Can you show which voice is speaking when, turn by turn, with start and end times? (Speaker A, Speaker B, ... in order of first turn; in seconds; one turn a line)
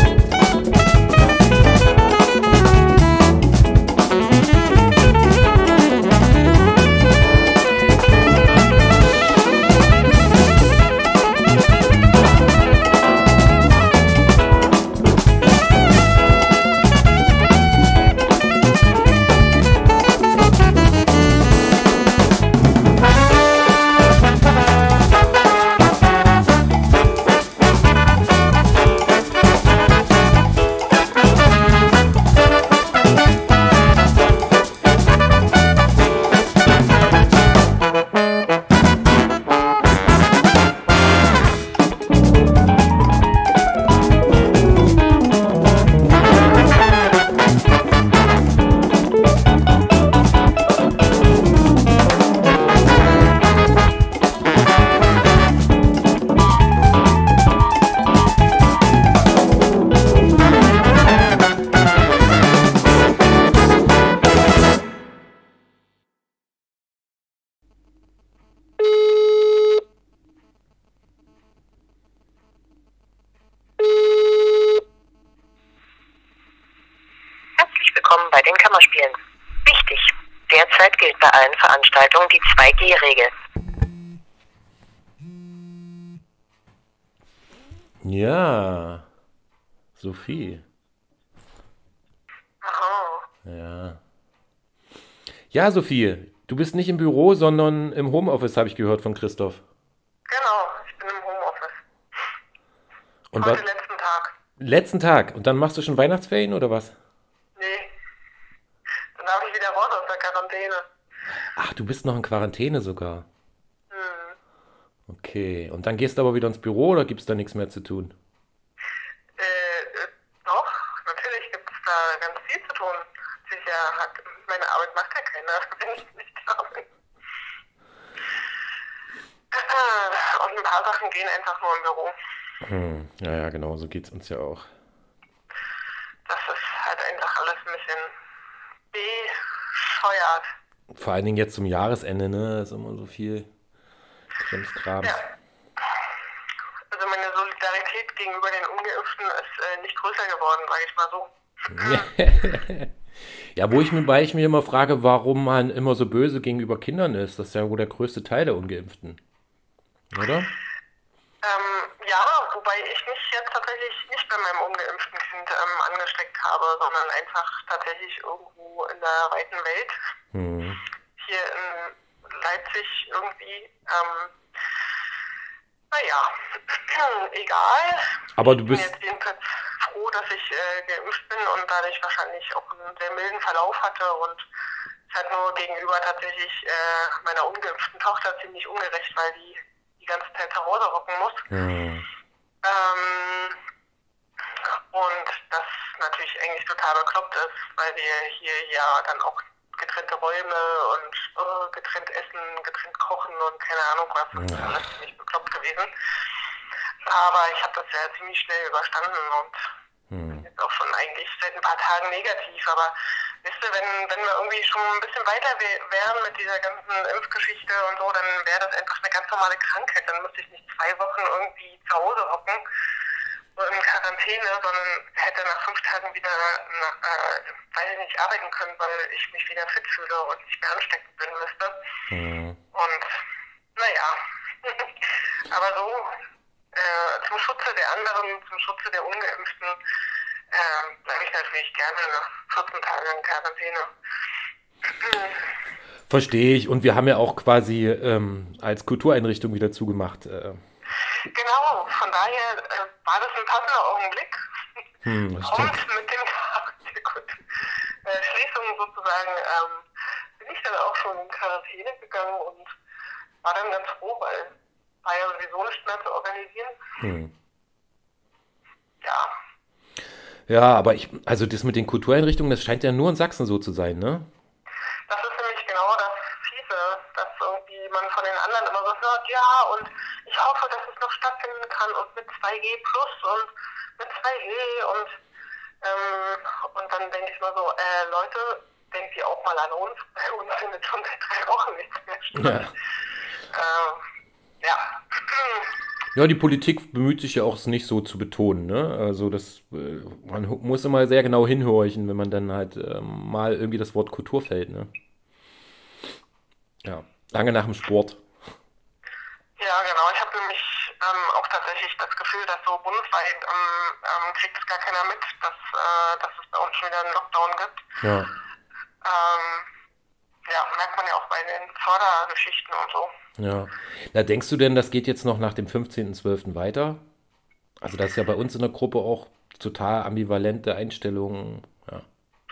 Speaker A: 77.6-83.3
Speaker B: 88.0-89.1
Speaker B: 90.0-90.7
Speaker C: 92.6-93.3
Speaker B: 93.5-94.0
Speaker B: 95.5-99.6
Speaker C: 100.3-101.8
Speaker B: 103.3-103.6
Speaker C: 103.4-104.3
Speaker B: 104.6-107.0
Speaker C: 107.6-107.9
Speaker C: 109.2-110.9
Speaker B: 111.5-113.3
Speaker C: 113.9-114.4
Speaker B: 115.1-118.2
Speaker C: 119.4-126.9
Speaker C: 129.5-132.2
Speaker B: 132.6-134.7
Speaker C: 136.3-138.1
Speaker C: 138.9-140.5
Speaker B: 140.9-143.5
Speaker B: 144.4-145.2
Speaker C: 146.9-152.1
Speaker B: 151.7-159.2
Speaker B: 160.1-160.5
Speaker C: 161.4-170.0
Speaker B: 170.3-170.8
Speaker C: 171.2-174.4
Speaker C: 175.9-178.1
Speaker B: 178.4-178.9
Speaker C: 178.7-184.4
Speaker C: 185.1-191.5
Speaker B: 191.5-192.1
Speaker C: 192.6-193.6
Speaker C: 194.6-205.9
Speaker B: 204.3-204.8
Speaker C: 207.0-209.7
Speaker B: 210.1-210.5
Speaker C: 210.4-222.6
Speaker C: 223.6-231.8
Speaker B: 232.1-232.6
Speaker C: 232.7-233.2
Speaker C: 233.8-236.2
Speaker C: 236.7-239.8
Speaker C: 240.5-243.9
Speaker C: 245.0-245.4
Speaker B: 246.1-250.6
Speaker C: 251.3-254.8
Speaker B: 255.1-255.8
Speaker C: 255.4-259.9
Speaker C: 260.4-262.7
Speaker C: 263.4-266.8
Speaker B: 267.0-267.3
Speaker C: 269.0-269.3
Speaker B: 270.5-274.3
Speaker C: 275.1-285.1
Speaker C: 285.8-292.7
Speaker B: 292.3-292.7
Speaker C: 293.5-294.0
Speaker C: 294.6-295.7
Speaker B: 296.1-304.9
Speaker B: 306.8-308.3
Speaker C: 309.6-317.8
Speaker B: 318.0-318.3
Speaker C: 319.0-319.7
Speaker C: 320.5-323.1
Speaker B: 323.4-327.0
Speaker B: 327.8-332.1